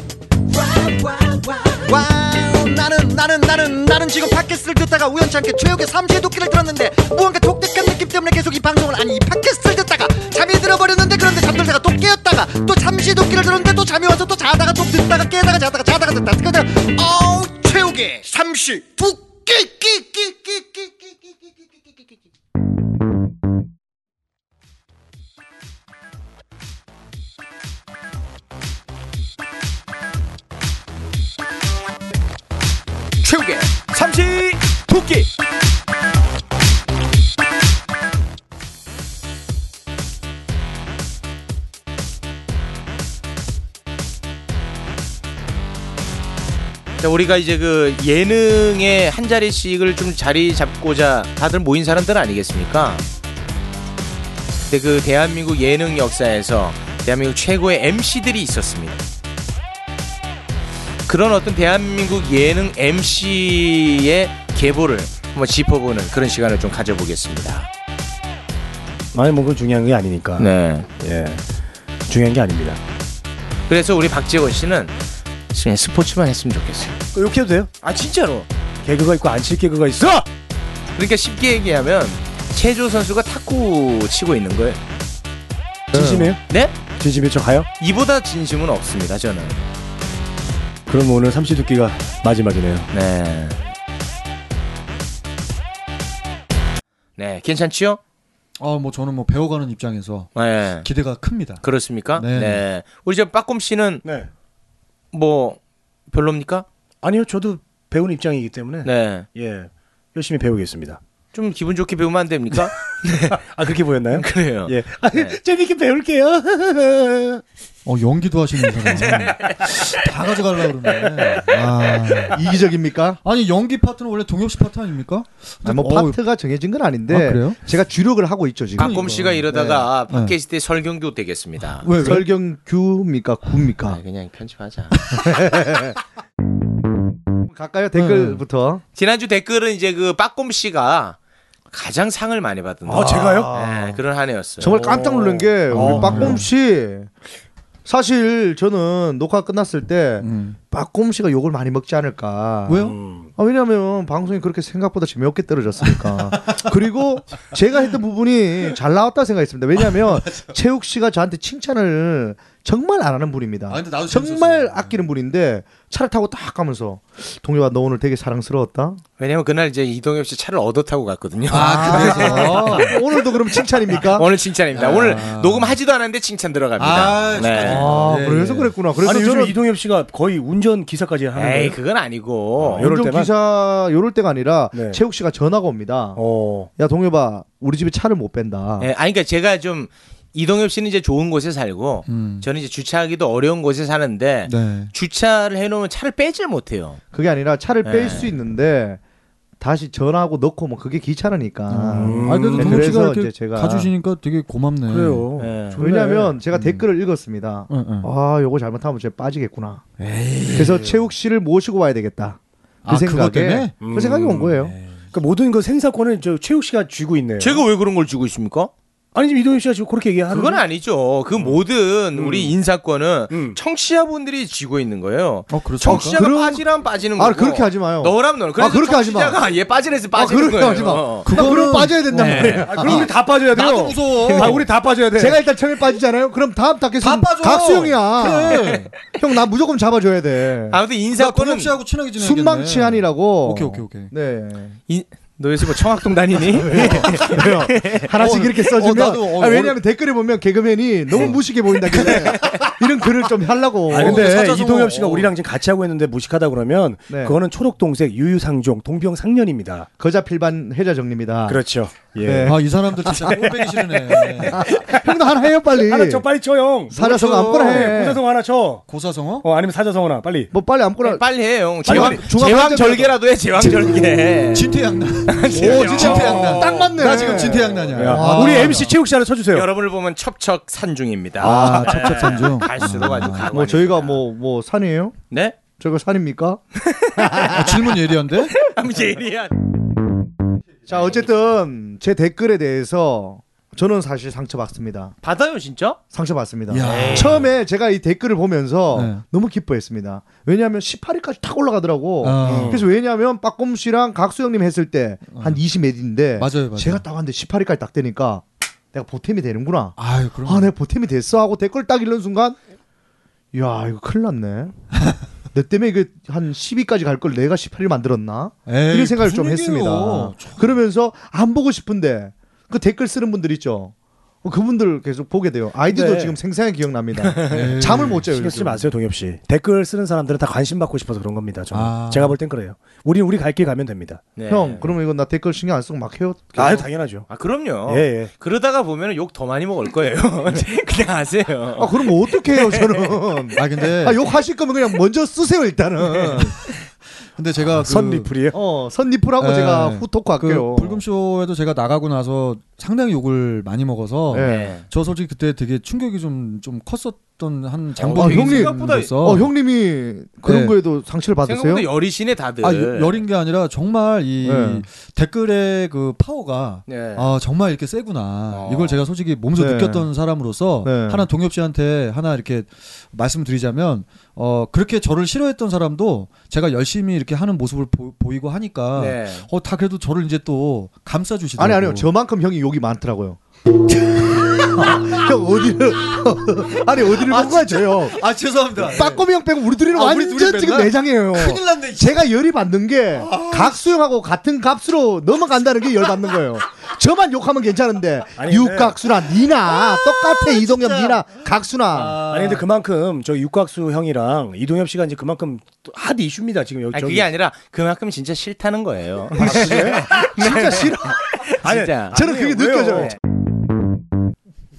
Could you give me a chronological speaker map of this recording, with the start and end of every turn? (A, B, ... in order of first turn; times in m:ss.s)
0:00.5-0:22.1 A
0:33.2-0:33.8 B
0:33.9-0:35.2 C
0:47.0-0:53.0 B
0:54.7-0:59.0 B
1:01.1-1:07.7 B
1:09.1-1:11.4 C
1:10.4-1:10.9 B
1:12.1-1:12.8 C
1:13.7-1:15.0 B
1:15.5-1:17.0 B
1:17.1-1:17.7 C
1:17.8-1:18.5 B
1:18.8-1:20.3 C
1:21.0-1:24.8 B
1:25.9-1:27.7 C
1:25.9-1:26.3 D
1:26.5-1:26.8 B
1:27.8-1:29.6 B
1:30.9-1:32.9 C
1:32.9-1:33.6 B
1:37.2-1:38.0 B
1:38.6-1:41.6 E
1:40.4-1:40.9 B
1:41.6-1:44.0 B
1:42.2-1:42.6 E
1:44.0-1:44.3 C
1:45.1-1:45.6 B
1:46.1-1:46.7 B
1:47.0-1:51.0 C
1:48.8-1:49.3 B
1:51.3-1:53.4 B
1:53.3-1:57.4 C
1:54.2-1:55.4 B
1:57.8-2:02.5 E
1:58.9-2:00.0 B
2:01.0-2:01.4 B
2:01.5-2:03.2 D
2:03.2-2:06.2 E
2:05.6-2:09.8 D
2:07.1-2:07.6 E
2:08.8-2:10.4 E
2:08.8-2:11.9 B
2:11.7-2:12.2 E
2:12.0-2:14.0 D
2:13.8-2:15.2 B
2:15.1-2:16.0 D
2:17.5-2:18.8 D
2:18.0-2:18.4 E
2:19.0-2:21.2 B
2:21.7-2:24.8 B
2:22.9-2:23.5 C
2:23.0-2:24.0 D
2:24.6-2:27.1 D
2:24.8-2:26.4 C
2:25.7-2:26.5 E
2:27.8-2:49.0 D
2:30.2-2:30.6 E
2:32.7-2:33.0 E
2:32.8-2:33.3 C
2:36.3-2:36.7 E
2:43.7-2:45.0 E
2:49.2-2:58.0 B
2:51.5-2:53.0 E
2:51.5-2:54.3 D
2:54.7-2:55.8 E
2:56.8-2:58.7 E
2:57.6-2:57.9 C
2:57.6-2:59.6 D
2:59.0-3:01.8 C
3:01.4-3:02.9 B
3:02.6-3:03.3 C
3:02.8-3:06.2 D
3:04.7-3:05.0 C
3:06.2-3:06.7 C
3:06.8-3:08.9 D
3:08.8-3:17.0 B
3:12.1-3:12.5 E
3:14.5-3:14.9 E
3:17.1-3:19.0 D
3:17.8-3:18.3 B
3:19.6-3:23.9 D
3:21.7-3:25.3 E
3:22.0-3:23.0 C
3:24.9-3:26.4 C
3:25.4-3:25.8 B
3:25.8-3:29.8 D
3:26.5-3:26.9 E
3:27.7-3:28.1 E
3:30.0-3:31.0 E
3:30.5-3:34.8 D
3:32.8-3:33.7 E
3:33.8-3:37.6 C
3:37.4-3:38.7 B
3:39.2-3:40.6 C
3:40.3-3:51.3 B
3:42.2-3:42.6 C
3:43.3-3:43.6 C
3:45.5-3:46.2 E
3:45.8-3:49.4 D
3:50.1-3:53.1 D
3:51.2-3:54.6 E
3:52.1-3:52.7 B
3:52.3-3:55.4 C
3:54.2-4:00.8 D
3:57.0-3:58.9 E
4:00.7-4:01.8 B
4:01.2-4:04.1 E
4:02.2-4:04.8 D
4:04.9-4:08.2 B
4:06.4-4:14.5 D
4:06.8-4:07.2 E
4:08.2-4:09.8 E
4:11.9-4:12.5 C
4:12.0-4:12.6 B
4:13.9-4:19.9 C
4:13.9-4:15.3 E
4:17.1-4:17.4 D
4:20.0-4:21.6 D
4:21.5-4:22.6 C
4:22.2-4:23.4 D
4:22.4-4:24.6 E
4:23.2-4:28.9 C
4:24.4-4:26.2 D
4:26.9-4:28.2 D
4:27.0-4:28.0 E
4:28.9-4:29.4 E
4:29.4-4:30.5 C
4:30.5-4:31.2 D
4:31.0-4:34.7 B
4:31.8-4:33.2 D
4:31.9-4:32.2 C
4:34.5-4:39.0 E
4:35.3-4:37.2 B
4:35.5-4:38.9 D
4:35.8-4:36.3 C
4:37.0-4:39.7 C
4:39.5-4:44.2 B
4:41.4-4:43.5 E
4:41.4-4:42.5 D
4:43.5-4:45.2 D
4:45.3-4:45.6 B
4:45.8-4:46.6 D
4:46.8-4:49.5 B
4:47.4-4:48.6 E
4:50.9-4:55.1 D
4:55.2-4:56.0 B
4:56.1-5:12.6 D
4:56.7-4:57.4 E
4:56.8-4:57.5 B
4:58.9-4:59.2 E
5:02.2-5:02.8 E
5:02.4-5:02.8 C
5:05.3-5:05.6 E
5:06.4-5:07.1 E
5:10.0-5:10.7 E
5:13.5-5:14.8 D
5:15.5-5:28.9 D
5:18.7-5:20.8 E
5:25.9-5:26.4 C
5:27.2-5:27.8 B
5:27.5-5:28.2 E
5:28.3-5:34.2 C
5:31.7-5:32.4 E
5:34.4-5:35.0 B
5:34.5-5:36.9 D
5:36.6-5:37.3 C
5:37.3-5:43.2 B
5:37.9-5:38.3 C
5:41.8-5:46.5 D
5:43.6-5:44.2 E
5:46.2-5:46.5 E
5:47.4-5:48.3 E
5:47.7-5:48.6 C
5:48.5-5:51.0 D
5:49.4-5:59.5 E
5:54.3-5:54.8 D
5:54.4-5:54.8 B
5:58.0-5:59.4 B
5:58.2-6:01.9 D
6:00.5-6:00.8 E
6:01.5-6:03.2 B
6:02.6-6:22.1 E
6:04.4-6:04.8 D
6:06.9-6:07.3 B
6:08.5-6:09.0 B
6:09.6-6:10.1 D
6:10.8-6:11.3 D
6:19.0-6:19.5 B
6:21.6-6:23.4 D
6:24.6-6:28.2 D
6:27.1-6:29.2 E
6:28.8-6:42.3 D
6:29.8-6:32.2 E
6:33.2-6:33.8 E
6:38.4-6:39.0 C
6:40.5-6:41.2 E
6:41.9-6:42.6 E
6:42.2-6:47.3 C
6:46.9-6:52.2 B
6:49.4-6:53.2 C
6:52.1-6:53.2 D